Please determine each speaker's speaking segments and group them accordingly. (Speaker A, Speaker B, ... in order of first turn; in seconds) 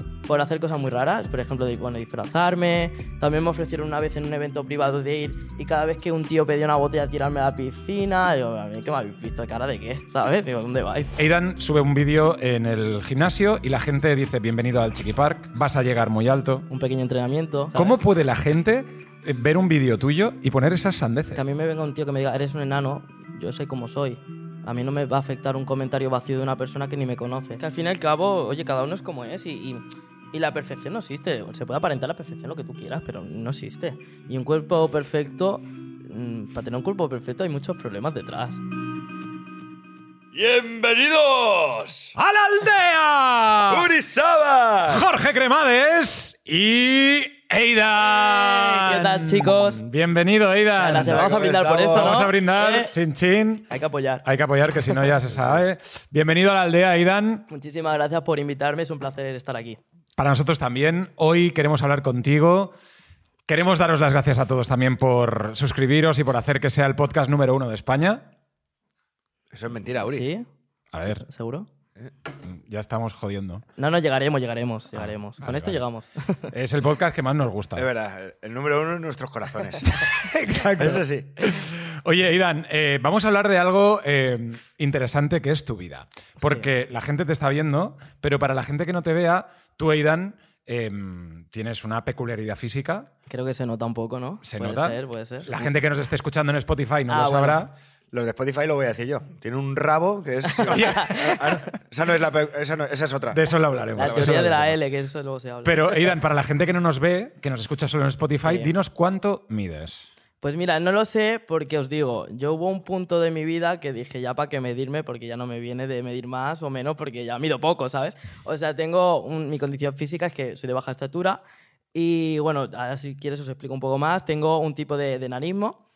Speaker A: 0.3-11.1, 16.7-18.0, 21.3-38.6, 48.2-49.8, 50.8-52.9, 53.7-54.2, 57.5-59.8, 70.0-70.5, 71.0-71.7, 73.8-76.5, 86.4-86.7, 93.3-95.7, 97.1-97.7, 100.5-101.6, 104.0-106.1, 108.4-108.7, 110.4-121.4, 121.9-125.8
Speaker B: 11.2-16.6, 17.7-21.4, 42.1-43.9, 44.9-51.2, 51.9-53.7, 54.2-57.5, 60.2-62.7, 63.5-68.3, 70.9-71.2, 72.4-73.6, 74.9-75.8, 76.5-77.8, 79.9-93.1, 94.4-97.7, 100.7-101.6, 103.3-104.7, 105.6-110.1
Speaker C: 40.3-42.1, 43.7-45.0, 50.9-52.3, 55.3-55.6, 69.5-70.3, 77.8-80.0, 80.7-81.3, 98.1-104.7